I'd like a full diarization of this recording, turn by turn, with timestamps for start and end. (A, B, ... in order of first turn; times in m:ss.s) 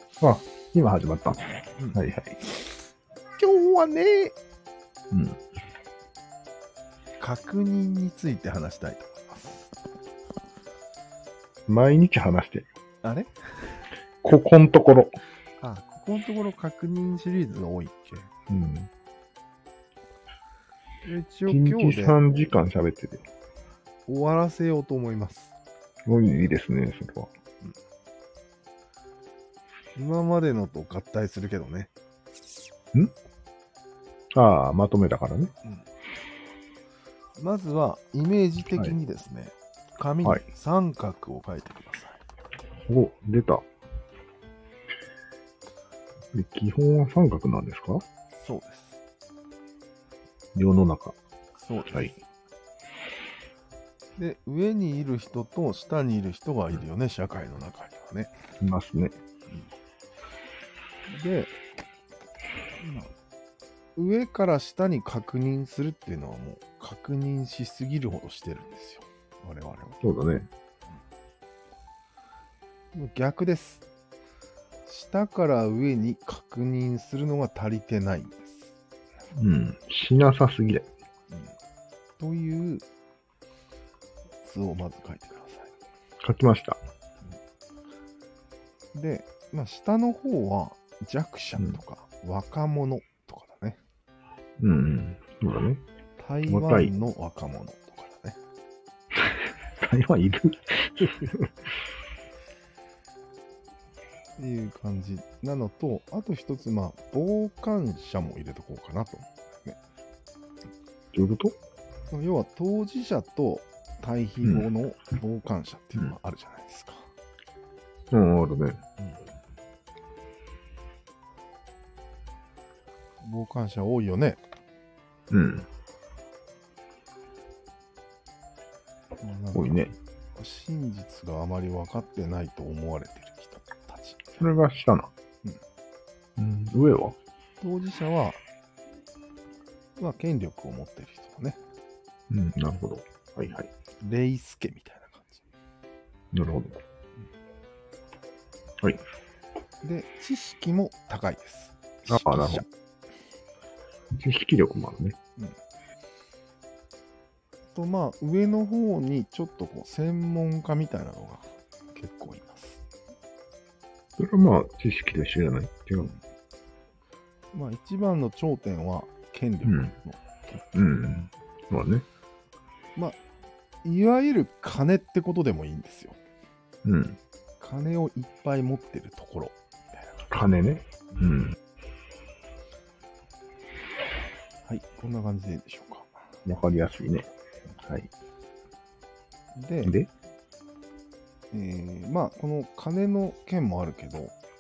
0:00.2-0:02.4 A
0:03.4-0:04.4 B
0:05.1-0:05.4 A
0:07.2-0:09.8 B
0:11.7-0:12.7 A
0:13.0-0:13.8 B
0:14.2-0:15.1 A
0:15.6-0:18.3 B
0:18.5-0:18.9 A
0:21.0-0:22.2 B
0:21.5-0:23.2 A
0:24.1-0:25.6 B
0:26.1-0:27.3 A
0:30.0-0:31.9 B
0:34.3-0:35.5 A
0:37.4-0:42.2 B
0:42.8-0:43.7 A
0:46.3-0:48.0 A
0:48.4-0:49.0 B
0:50.6-0:51.2 A
0:51.6-0:52.2 B
0:54.2-0:58.3 B
0:58.6-0:59.2 A
1:01.1-1:01.5 B
1:02.8-1:03.1 B
1:04.0-1:10.0 B
1:10.0-1:10.5 A
1:12.9-1:13.8 B
1:14.9-1:18.7 B
1:19.4-1:20.9 A
1:22.2-1:22.9 B
1:24.4-1:25.7 B
1:26.2-1:26.8 A
1:28.9-1:33.8 B
1:34.6-1:35.8 A
1:36.2-1:38.4 B
1:36.5-1:36.9 A
1:39.2-1:41.5 A
1:44.4-1:49.8 B
1:51.1-1:51.6 A
1:52.1-1:57.1 B
1:58.1-1:58.8 A
2:03.2-2:04.4 B
2:05.3-2:05.7 A
2:09.2-2:14.6 B
2:09.5-2:09.9 A
2:14.4-2:15.1 A
2:16.4-2:17.2 A
2:17.6-2:18.4 B
2:20.0-2:21.6 B
2:22.3-2:23.7 A
2:24.0-2:25.4 B
2:26.3-2:26.8 A
2:29.8-2:32.7 B
2:32.1-2:32.6 A
2:34.1-2:35.2 A
2:37.7-2:42.8 B
2:44.2-2:46.1 A
2:47.5-2:50.8 B
2:49.6-2:49.9 A
2:50.7-2:52.0 A
2:53.8-2:56.2 B
2:56.8-2:57.2 A
2:57.6-3:00.1 B
3:00.3-3:01.6 A
3:04.7-3:06.2 B
3:06.5-3:07.3 A
3:07.8-3:08.1 A
3:09.6-3:10.0 B
3:09.8-3:10.1 A
3:11.5-3:14.3 B